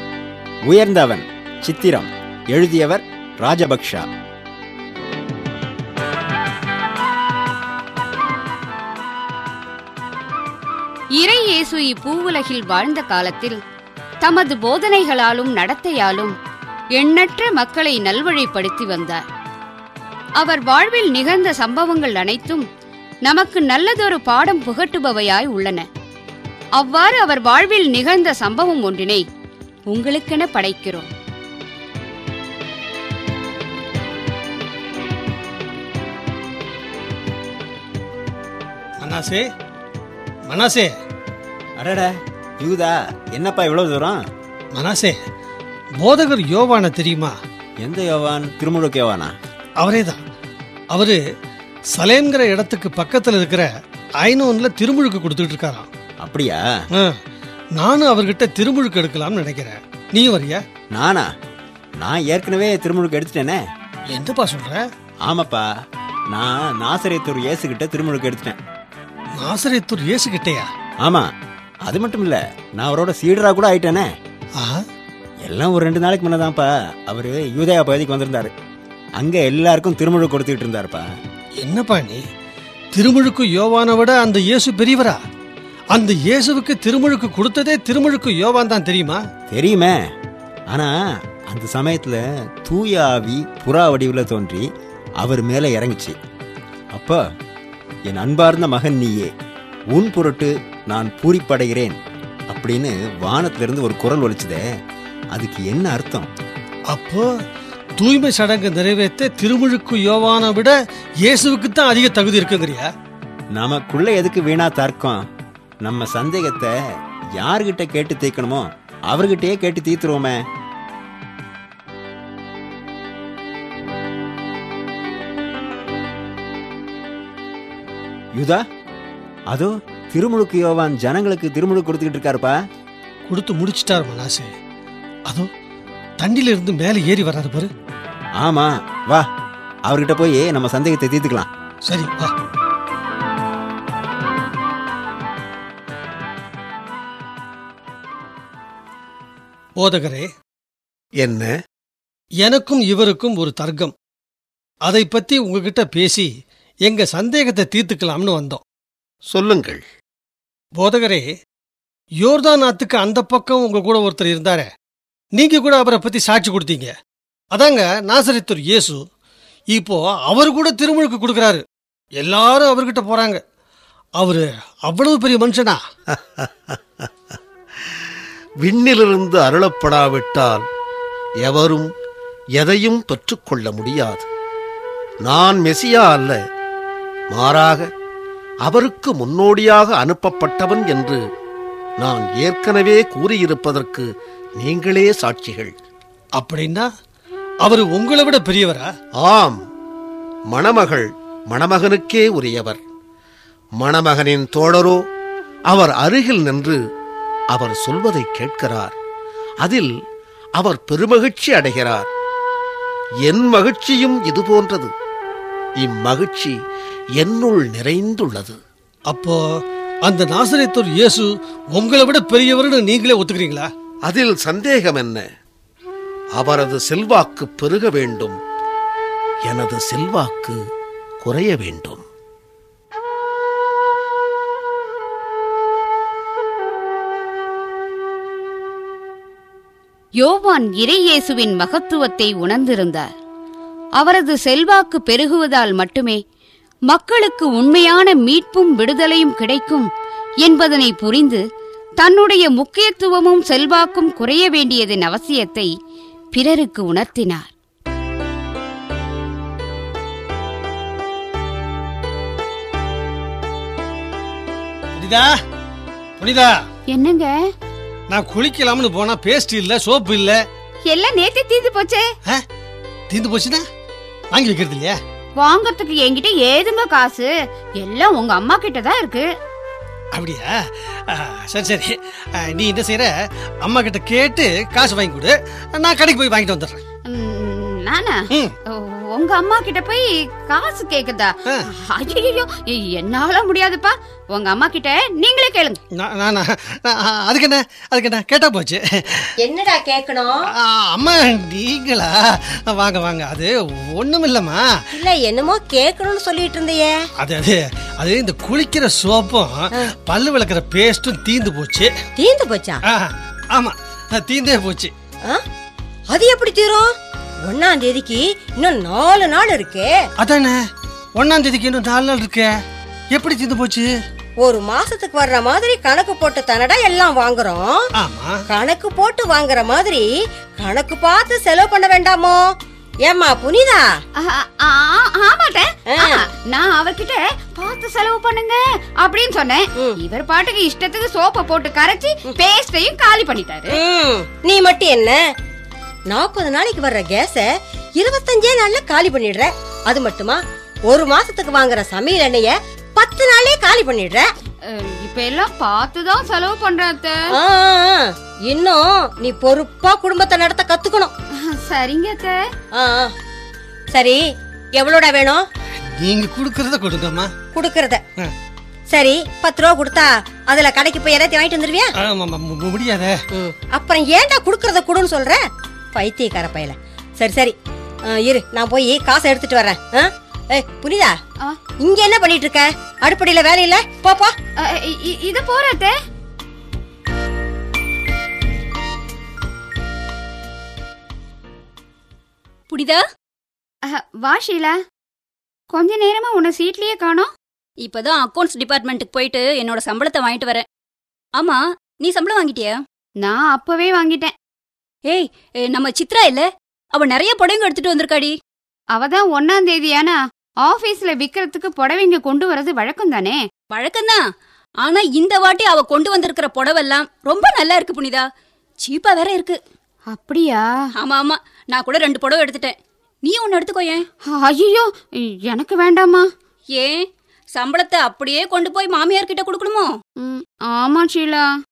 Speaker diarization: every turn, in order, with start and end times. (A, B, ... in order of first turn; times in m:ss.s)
0:00.6-0:04.0 A
0:11.2-0:13.6 B
0:14.2-0:16.3 B
0:17.0-0:19.2 B
0:20.4-0:22.6 B
0:23.2-0:25.8 B
0:26.8-0:29.2 B
0:29.9-0:31.1 B
0:39.0-0:39.4 C
0:40.5-0:40.9 C
0:41.8-0:44.2 A
0:44.7-0:45.2 C
0:46.0-0:47.3 C
0:47.8-0:49.3 A
0:49.8-0:50.2 C
0:50.9-0:51.2 C
0:51.9-0:55.9 C
0:56.2-0:56.6 A
0:57.8-1:00.6 C
1:00.9-1:01.3 A
1:02.0-1:03.6 A
1:04.1-1:04.8 C
1:05.2-1:05.6 A
1:06.3-1:08.6 A
1:09.4-1:10.7 C
1:11.0-1:11.3 A
1:11.8-1:14.1 A
1:14.6-1:14.8 C
1:15.4-1:18.5 A
1:19.2-1:21.0 A
1:21.6-1:22.2 C
1:22.9-1:25.2 C
1:25.9-1:29.2 C
1:29.5-1:30.0 A
1:31.5-1:34.6 A
1:35.2-1:36.2 A
1:36.9-1:37.2 A
1:38.1-1:39.3 A
1:39.9-1:42.0 A
1:42.5-1:44.6 A
1:45.3-1:46.3 A
1:46.9-1:47.3 C
1:48.0-1:52.9 C
1:53.5-1:55.2 A
1:55.8-1:56.7 A
1:57.4-2:00.4 A
2:08.3-2:08.6 A
2:09.5-2:12.5 A
2:13.3-2:14.5 C
2:16.2-2:17.7 C
2:18.4-2:19.3 A
2:19.8-2:21.5 A
2:21.8-2:22.3 C
2:29.8-2:30.3 C
2:31.2-2:31.5 D
2:32.4-2:33.9 C
2:34.8-2:36.3 C
2:36.8-2:38.6 C
2:39.3-2:39.8 D
2:40.8-2:41.3 C
2:42.2-2:44.7 C
2:45.3-2:46.9 C
2:47.5-2:49.0 C
2:49.7-2:51.6 C
2:52.2-2:53.4 C
2:54.2-2:55.8 C
2:56.1-2:57.1 D
2:58.6-3:00.6 D
3:01.4-3:01.9 D
3:02.6-3:04.3 D
3:05.2-3:06.4 D
3:07.3-3:07.9 D
3:08.6-3:11.2 D
3:12.0-3:15.7 D
3:16.4-3:16.9 C
3:17.6-3:18.9 C
3:19.2-3:19.6 D
3:20.5-3:22.8 D
3:23.8-3:25.0 D
3:25.7-3:26.8 D
3:27.5-3:28.9 D
3:29.6-3:29.9 D
3:30.6-3:32.1 D
3:33.2-3:34.9 D
3:35.8-3:36.6 D
3:37.2-3:38.6 D
3:39.1-3:39.4 C
3:40.0-3:43.7 C
3:44.0-3:45.2 D
3:46.4-3:48.4 D
3:49.4-3:50.6 D
3:51.2-3:52.0 D
4:00.2-4:03.1 B
4:04.0-4:06.2 B
4:06.9-4:09.9 B
4:10.4-4:11.4 B
4:12.0-4:15.7 B
4:16.3-4:17.5 B
4:25.0-4:25.3 C
4:26.2-4:26.6 C
4:26.9-4:27.3 B
4:28.1-4:30.4 C
4:30.8-4:32.0 B
4:33.1-4:33.6 C
4:34.3-4:35.0 C
4:35.4-4:37.3 B
4:37.8-4:39.3 B
4:40.1-4:46.8 C
4:47.1-4:48.2 B
4:48.7-4:55.8 B
4:55.9-4:59.3 C
4:59.4-5:00.4 E
5:00.6-5:04.7 C
5:05.0-5:06.9 E
5:07.2-5:11.9 C
5:12.2-5:12.8 E
5:12.9-5:14.9 C
5:16.1-5:16.9 E
5:17.5-5:19.9 E
5:20.2-5:20.6 C
5:21.2-5:22.5 C
5:23.1-5:23.9 C
5:24.4-5:27.8 E
5:28.0-5:28.4 C
5:28.5-5:30.0 E
5:30.6-5:32.4 E
5:33.0-5:33.8 E
5:34.2-5:43.8 B
5:35.9-5:36.2 E
5:43.7-5:45.2 E
5:46.1-5:47.4 E
5:48.0-5:54.2 E
5:54.6-5:57.2 B
5:57.3-6:01.1 E
6:01.4-6:02.4 B
6:02.7-6:03.1 E
6:03.9-6:04.2 E
6:04.8-6:05.4 E
6:05.8-6:07.3 C
6:07.5-6:08.0 E
6:08.9-6:11.9 E
6:12.0-6:13.2 C
6:13.4-6:15.4 E
6:15.9-6:17.5 E
6:18.1-6:21.1 E
6:21.8-6:24.3 E
6:24.6-6:25.9 B
6:32.7-6:33.0 F
6:33.8-6:34.8 B
6:35.7-6:37.3 B
6:37.8-6:40.6 F
6:41.4-6:42.8 F
6:43.2-6:44.3 B
6:45.1-6:48.3 F
6:48.9-6:53.4 B
6:53.7-6:54.2 F
6:54.8-6:58.2 F
6:58.8-6:59.6 F
7:00.1-7:00.6 B
7:01.0-7:04.0 F
7:04.2-7:06.3 B
7:06.7-7:07.0 F
7:07.5-7:09.9 F
7:10.2-7:11.5 B